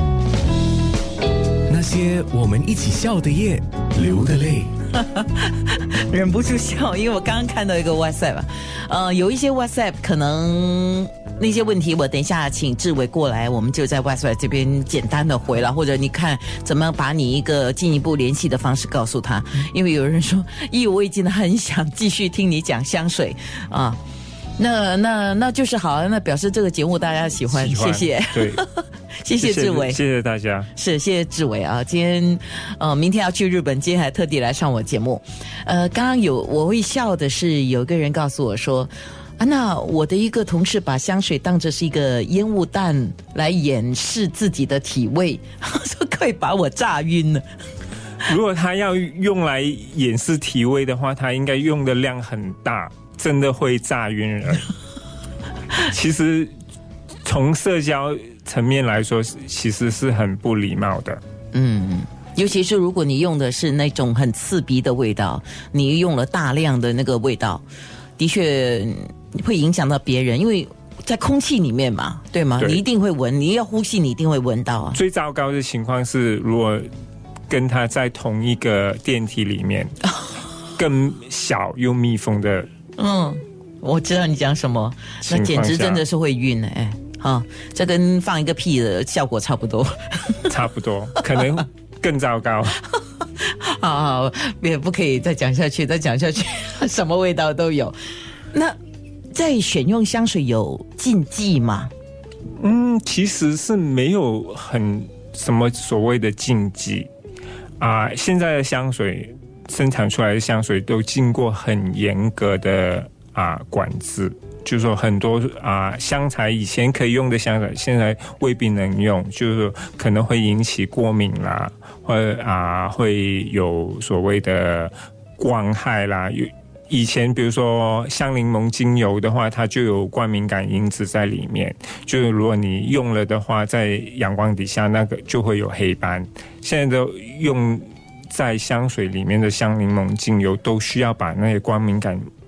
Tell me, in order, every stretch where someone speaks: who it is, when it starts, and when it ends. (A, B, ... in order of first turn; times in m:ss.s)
0:01.7-0:04.7 A
0:04.9-0:24.0 B
0:24.6-0:30.0 B
0:27.5-0:28.6 C
0:29.4-0:30.7 C
0:30.8-0:47.4 B
0:48.2-0:54.7 C
0:55.8-0:56.5 C
0:57.2-1:01.2 C
1:01.5-1:07.6 B
1:08.2-1:15.0 B
1:14.9-1:16.9 C
1:17.5-1:19.9 C
1:20.8-1:22.7 C
1:23.0-1:30.5 B
1:25.3-1:26.0 C
1:30.5-1:32.8 C
1:32.9-1:38.0 B
1:38.5-1:38.8 B
1:39.3-1:41.9 B
1:42.6-1:47.1 C
1:47.8-2:22.2 C